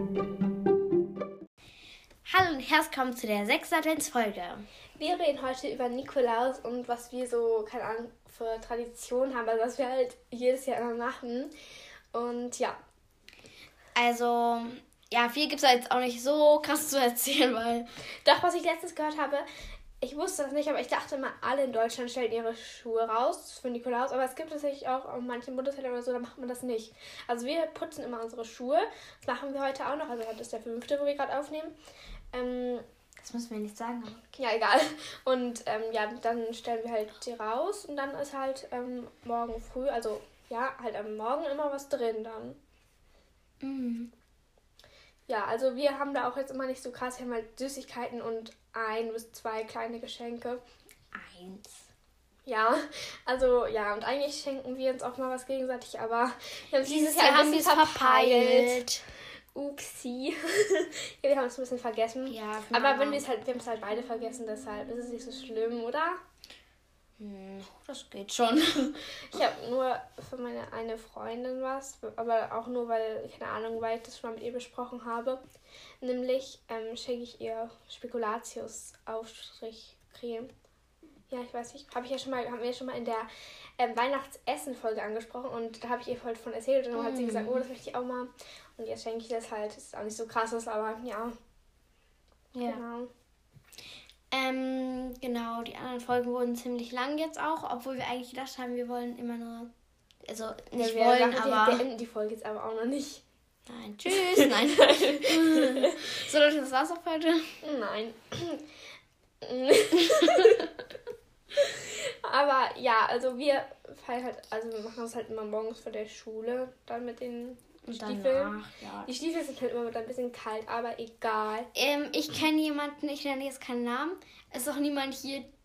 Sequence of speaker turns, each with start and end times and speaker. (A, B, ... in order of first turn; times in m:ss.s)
0:02.2-0:04.6 A
0:05.0-0:11.5 B
0:12.1-0:12.8 B
0:13.9-0:17.9 A
0:18.2-0:19.4 B
0:20.0-0:31.8 B
0:32.3-0:32.8 B
0:33.2-0:34.2 A
0:34.3-0:42.6 B
0:43.6-0:44.1 A
0:45.3-0:50.6 B
0:51.1-0:51.9 A
0:52.4-0:58.8 B
0:56.8-0:59.0 A
0:59.5-1:06.2 B
1:02.3-1:03.2 A
1:07.2-1:09.0 A
1:09.2-1:15.4 B
1:16.0-1:20.5 B
1:21.3-1:31.3 B
1:26.9-1:27.6 A
1:32.5-1:32.8 A
1:32.6-1:33.1 B
1:34.3-1:39.7 A
1:40.2-1:41.8 A
1:40.8-1:43.2 B
1:43.7-1:47.5 A
1:44.2-1:46.0 B
1:47.6-1:48.6 B
1:49.4-1:50.7 B
1:51.5-2:01.7 B
1:57.8-1:59.1 A
2:01.7-2:05.5 A